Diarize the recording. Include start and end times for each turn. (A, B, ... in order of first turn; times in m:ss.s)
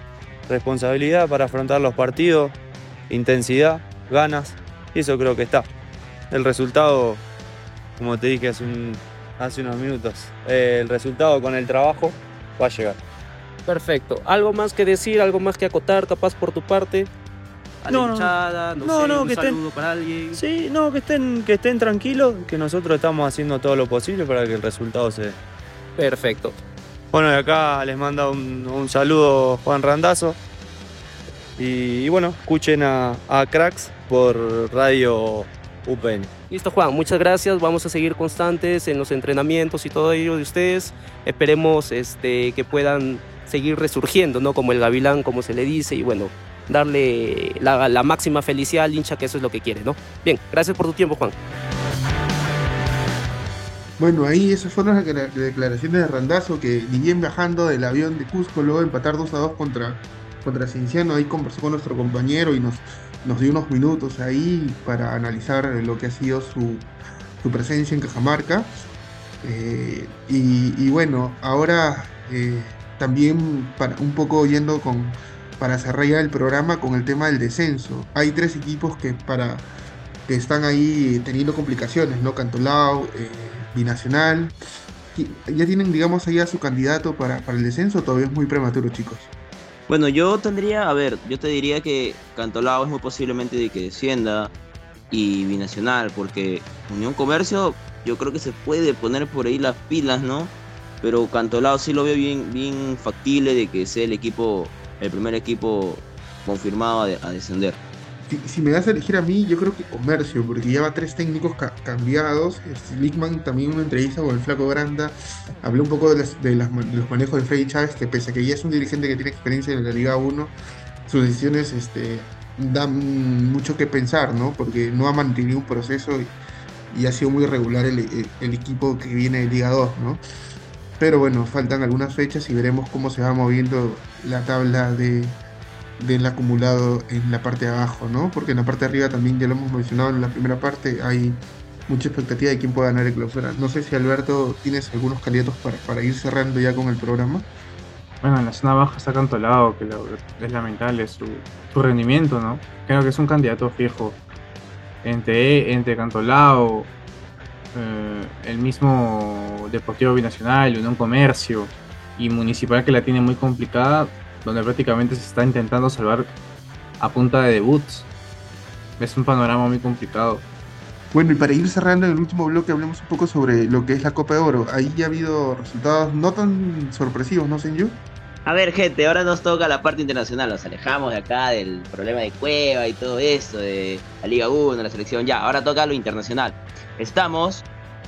0:00.5-0:02.6 A
0:03.1-0:05.7 A
0:06.3-0:07.2 A
0:08.0-0:13.0 A
0:13.6-0:17.1 B
0:17.8-0:20.4 B
0:17.9-0:18.3 A
0:18.8-0:19.6 A
0:20.3-0:25.4 A
0:26.0-0:26.6 B
0:27.1-0:30.4 A
0:31.6-0:36.3 A
0:36.5-0:51.3 B
0:54.0-1:08.7 C
1:09.4-1:19.7 C
1:20.2-1:24.5 C
1:25.1-1:29.3 C
1:29.9-1:34.5 D
1:35.1-1:47.8 D
1:48.3-2:00.5 C
2:01.0-2:06.3 C
2:06.9-2:10.2 C
2:11.0-2:15.4 C
2:16.0-2:27.4 C
2:28.2-2:34.2 E
2:35.0-2:36.9 E
2:37.7-2:46.3 E
2:47.0-2:48.1 E
2:49.0-2:50.4 E
2:51.1-2:58.0 C
2:58.4-3:07.6 D